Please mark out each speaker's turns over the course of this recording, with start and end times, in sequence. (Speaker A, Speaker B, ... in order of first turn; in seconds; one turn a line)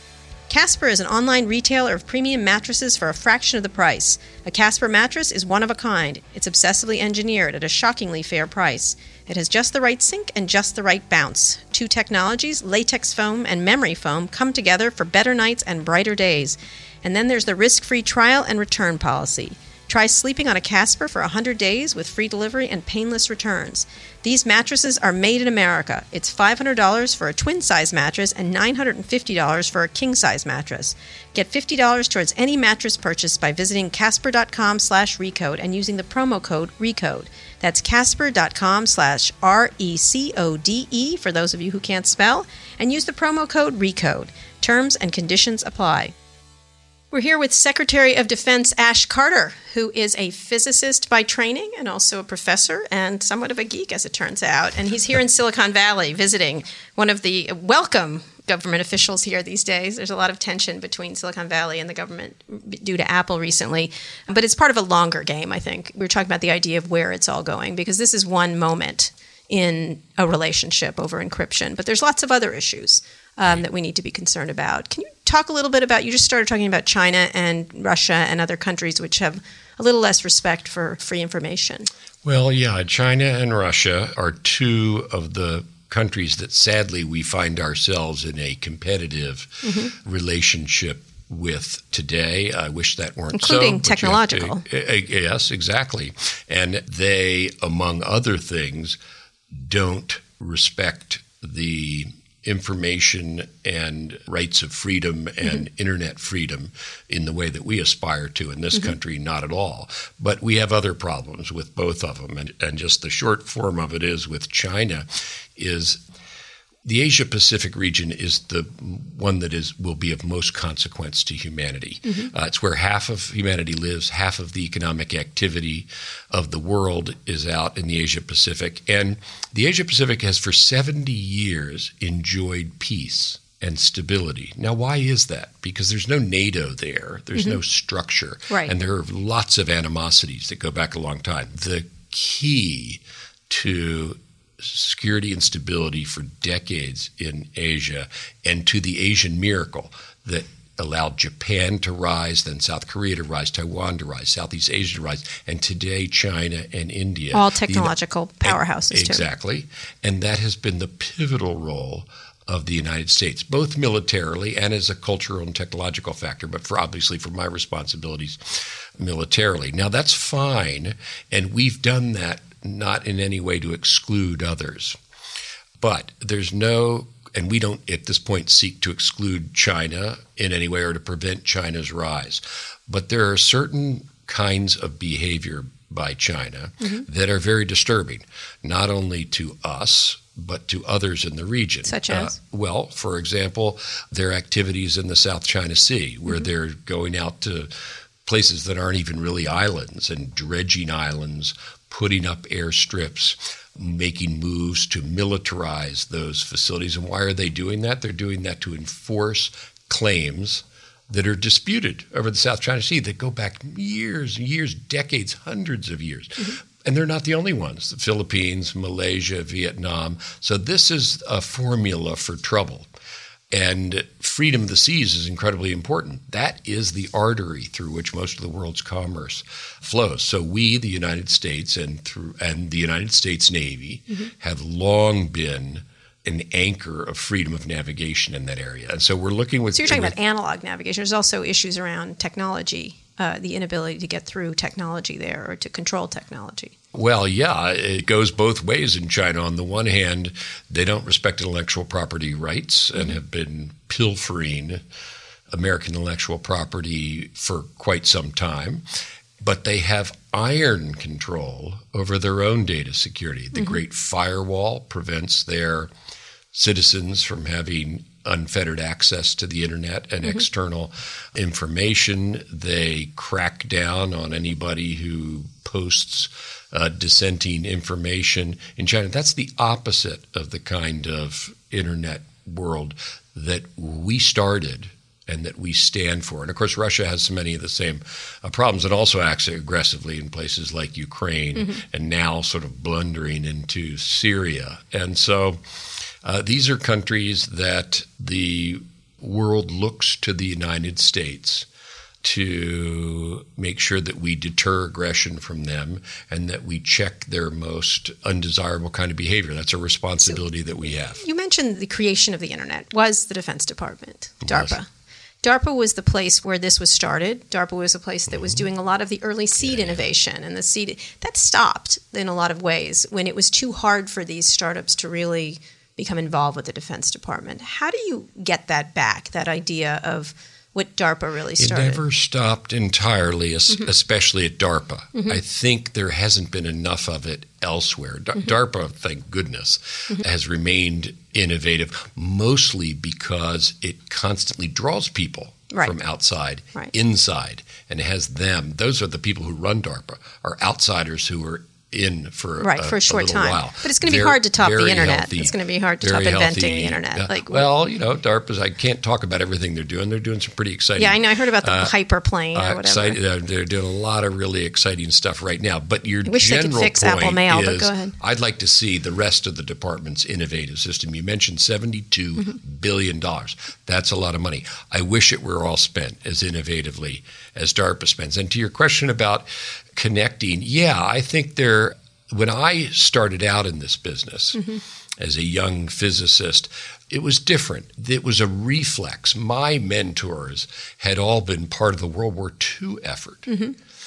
Speaker A: 0.5-46.1
Speaker A: 47.1-81.9
Speaker B: 82.2-99.0
Speaker A: 89.6-89.9
Speaker A: 93.3-94.6
Speaker B: 99.5-116.0
Speaker B: 116.8-175.0
Speaker A: 157.3-159.2
Speaker B: 175.8-197.7
Speaker A: 191.8-192.3
Speaker B: 198.2-222.9
Speaker B: 223.5-240.1
Speaker A: 239.7-246.7
Speaker B: 246.9-254.8
Speaker B: 255.5-258.8
Speaker B: 259.4-265.9
Speaker B: 266.5-295.6
Speaker B: 296.2-301.6
Speaker B: 302.2-311.2
Speaker A: 311.2-314.9
Speaker B: 314.4-314.7
Speaker A: 315.4-332.0
Speaker B: 318.3-318.6
Speaker B: 319.6-320.0
Speaker B: 331.6-361.9
Speaker A: 352.6-357.6
Speaker A: 361.0-363.2
Speaker B: 362.5-393.6
Speaker A: 366.2-368.1
Speaker A: 393.5-393.7